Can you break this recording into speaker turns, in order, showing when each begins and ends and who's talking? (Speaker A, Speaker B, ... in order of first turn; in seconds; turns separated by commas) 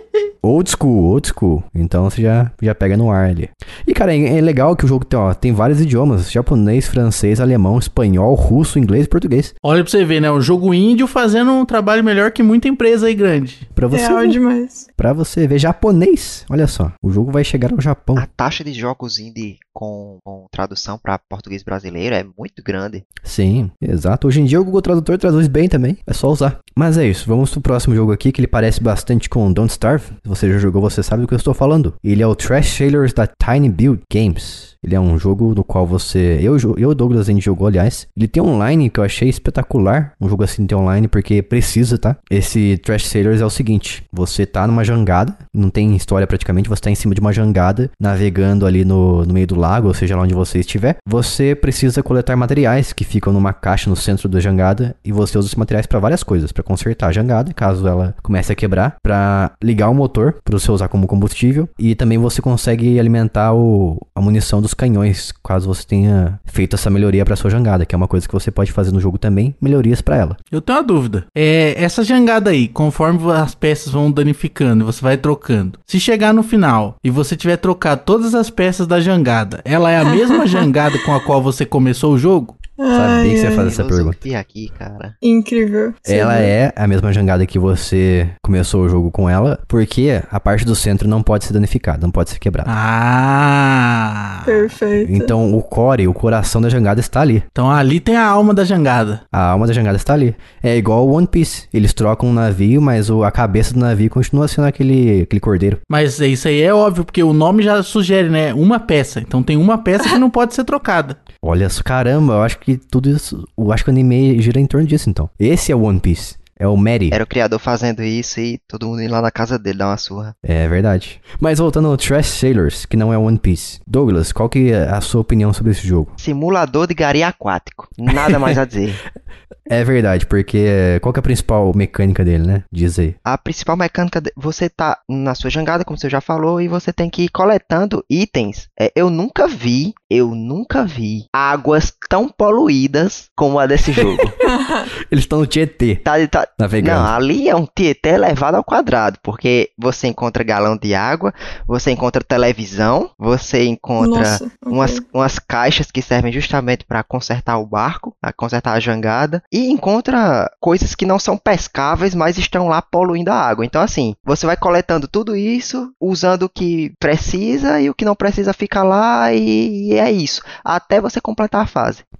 Speaker A: 0.4-9.5, Speaker B: 9.6-13.7, Speaker A: 13.7-14.4, Speaker C: 13.9-14.9, Speaker A: 15.0-18.2, Speaker D: 18.1-23.0, Speaker A: 23.2-70.4, Speaker B: 70.5-82.6, Speaker C: 80.2-80.4, Speaker C: 82.8-83.7, Speaker A: 82.9-84.2, Speaker D: 83.5-85.2, Speaker C: 85.2-86.5, Speaker A: 86.0-92.7, Speaker B: 92.7-94.7, Speaker C: 94.5-95.3, Speaker A: 95.0-97.5, Speaker B: 97.5-99.2, Speaker A: 99.3-105.8, Speaker B: 105.9-111.2, Speaker A: 111.4-117.2, Speaker D: 117.1-120.3, Speaker A: 120.4-126.1, Speaker D: 126.2-129.0, Speaker A: 129.7-133.2, Speaker D: 133.2-144.3, Speaker C: 144.4-144.9, Speaker A: 145.1-146.0, Speaker D: 146.0-172.0, Speaker A: 146.6-147.1, Speaker C: 154.0-155.0